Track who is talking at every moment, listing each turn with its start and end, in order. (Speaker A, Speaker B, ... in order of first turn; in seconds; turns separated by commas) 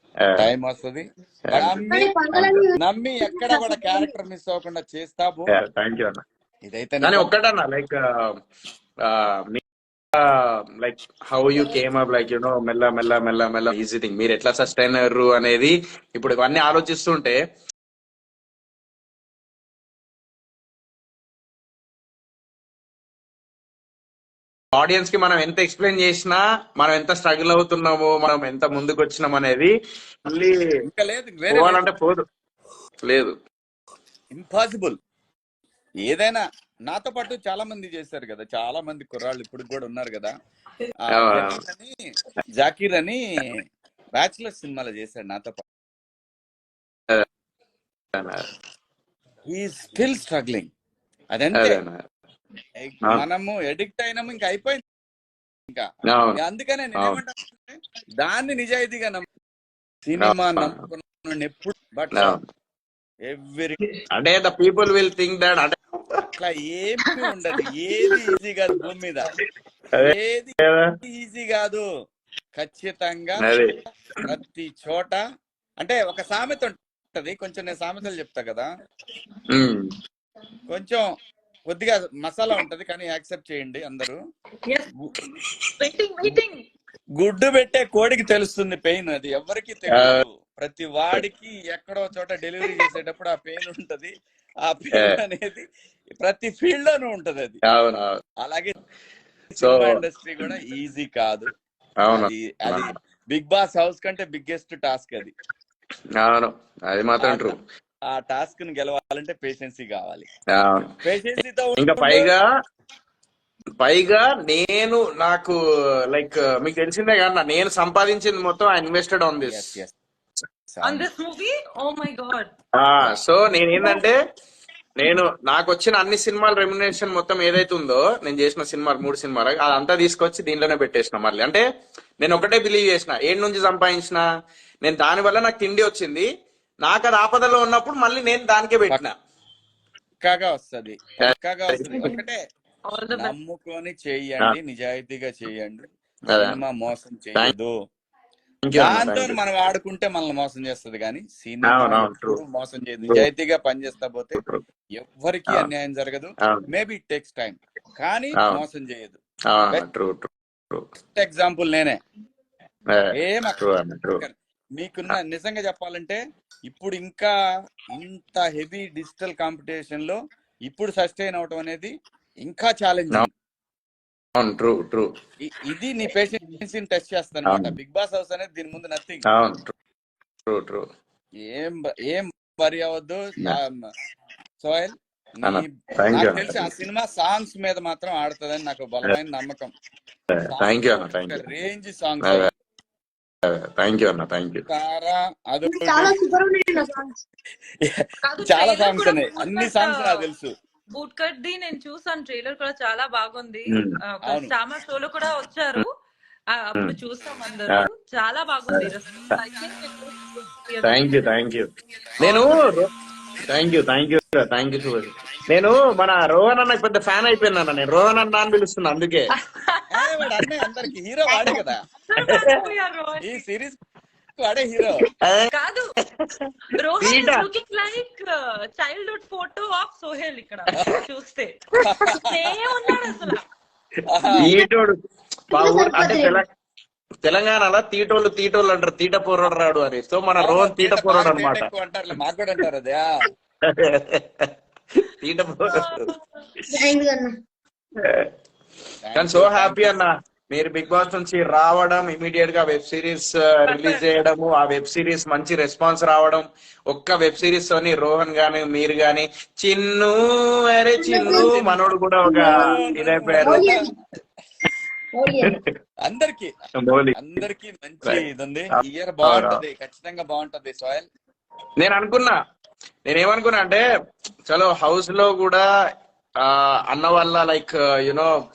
Speaker A: 0.2-0.5, Speaker B: 0.4-5.5, Speaker A: 1.5-1.8, Speaker C: 1.9-4.2, Speaker A: 5.5-6.2, Speaker B: 6.7-7.3, Speaker A: 7.0-8.0, Speaker A: 9.0-9.6, Speaker A: 10.8-17.4, Speaker A: 24.7-29.7, Speaker A: 30.3-30.6, Speaker B: 30.9-31.9, Speaker A: 31.5-32.2, Speaker A: 33.0-33.4, Speaker B: 34.3-35.0, Speaker B: 36.1-40.3, Speaker B: 41.1-42.1, Speaker A: 41.1-41.6, Speaker B: 42.6-43.6, Speaker B: 44.1-45.6, Speaker A: 48.1-48.5, Speaker B: 49.5-50.7, Speaker B: 51.3-51.8, Speaker A: 51.5-52.0, Speaker B: 52.8-54.8, Speaker B: 55.7-59.3, Speaker A: 56.1-56.4, Speaker B: 60.0-62.4, Speaker A: 60.2-60.8, Speaker A: 62.1-62.4, Speaker B: 63.3-63.8, Speaker A: 64.1-66.2, Speaker B: 66.4-69.3, Speaker A: 70.0-70.9, Speaker B: 70.0-71.8, Speaker B: 72.6-73.4, Speaker A: 73.4-73.7, Speaker B: 74.2-75.2, Speaker B: 75.8-78.7, Speaker A: 79.5-79.9, Speaker B: 80.7-81.0, Speaker B: 81.7-84.2, Speaker D: 85.8-86.6, Speaker B: 87.2-94.1, Speaker A: 89.9-90.2, Speaker B: 94.7-95.6, Speaker A: 94.9-95.2, Speaker B: 96.2-97.6, Speaker A: 97.7-98.2, Speaker B: 98.4-98.8, Speaker B: 99.5-101.5, Speaker A: 99.6-100.5, Speaker A: 102.0-102.9, Speaker B: 102.1-105.3, Speaker A: 106.2-107.6, Speaker B: 107.2-110.3, Speaker A: 110.5-110.9, Speaker B: 111.0-112.3, Speaker A: 111.8-112.4, Speaker A: 113.8-115.6, Speaker A: 116.1-119.7, Speaker B: 119.4-120.0, Speaker B: 120.7-121.1, Speaker D: 120.8-122.5, Speaker A: 122.8-124.2, Speaker A: 125.0-131.6, Speaker A: 132.2-134.2, Speaker A: 134.8-136.3, Speaker A: 136.8-139.1, Speaker B: 140.2-142.4, Speaker A: 141.2-142.2, Speaker D: 142.9-143.3, Speaker B: 143.1-147.7, Speaker A: 146.3-146.6, Speaker A: 148.7-149.4, Speaker B: 148.8-154.4, Speaker A: 151.6-152.4, Speaker A: 154.4-154.6, Speaker B: 155.0-159.2, Speaker A: 156.4-156.7, Speaker A: 159.5-160.8, Speaker B: 161.1-162.0, Speaker A: 162.9-164.2, Speaker B: 163.2-163.6, Speaker B: 164.2-167.3, Speaker B: 167.9-171.9, Speaker B: 172.4-173.3, Speaker A: 174.4-175.1, Speaker B: 175.4-179.3, Speaker A: 177.5-177.8, Speaker A: 179.3-179.7, Speaker A: 180.5-180.9, Speaker B: 181.5-183.7, Speaker B: 184.6-189.7, Speaker A: 185.4-186.7, Speaker A: 190.3-191.4, Speaker B: 190.5-192.5, Speaker A: 192.2-192.5, Speaker A: 193.4-194.7, Speaker B: 194.7-196.1, Speaker C: 195.7-197.1, Speaker B: 197.8-200.5, Speaker D: 198.2-200.3, Speaker D: 200.9-205.9, Speaker B: 204.3-204.5, Speaker D: 206.5-211.2, Speaker A: 210.8-211.7, Speaker A: 212.2-212.9, Speaker A: 213.5-219.3, Speaker D: 219.5-220.5, Speaker B: 219.9-221.8, Speaker D: 221.3-223.4, Speaker A: 222.3-222.5, Speaker B: 223.2-223.8, Speaker B: 224.4-225.1, Speaker A: 225.2-225.5, Speaker D: 225.5-225.9, Speaker D: 226.7-233.4, Speaker A: 227.0-227.5, Speaker B: 231.8-232.2, Speaker B: 234.1-234.5, Speaker A: 234.4-235.0, Speaker A: 235.5-236.4, Speaker C: 235.5-236.4, Speaker A: 237.2-241.7, Speaker B: 240.4-243.2, Speaker A: 243.7-244.5, Speaker A: 245.2-246.0, Speaker D: 245.7-246.2, Speaker C: 246.7-247.3, Speaker A: 248.0-248.3, Speaker B: 249.0-250.0, Speaker A: 249.2-263.7, Speaker D: 253.7-254.0, Speaker C: 261.0-261.7, Speaker C: 262.2-263.9, Speaker B: 262.4-263.8, Speaker C: 265.1-265.6, Speaker B: 266.1-266.5, Speaker A: 266.8-267.2, Speaker B: 267.2-271.1, Speaker A: 268.8-269.6, Speaker A: 271.8-272.4, Speaker A: 273.1-273.8, Speaker A: 274.5-275.6, Speaker A: 276.4-278.3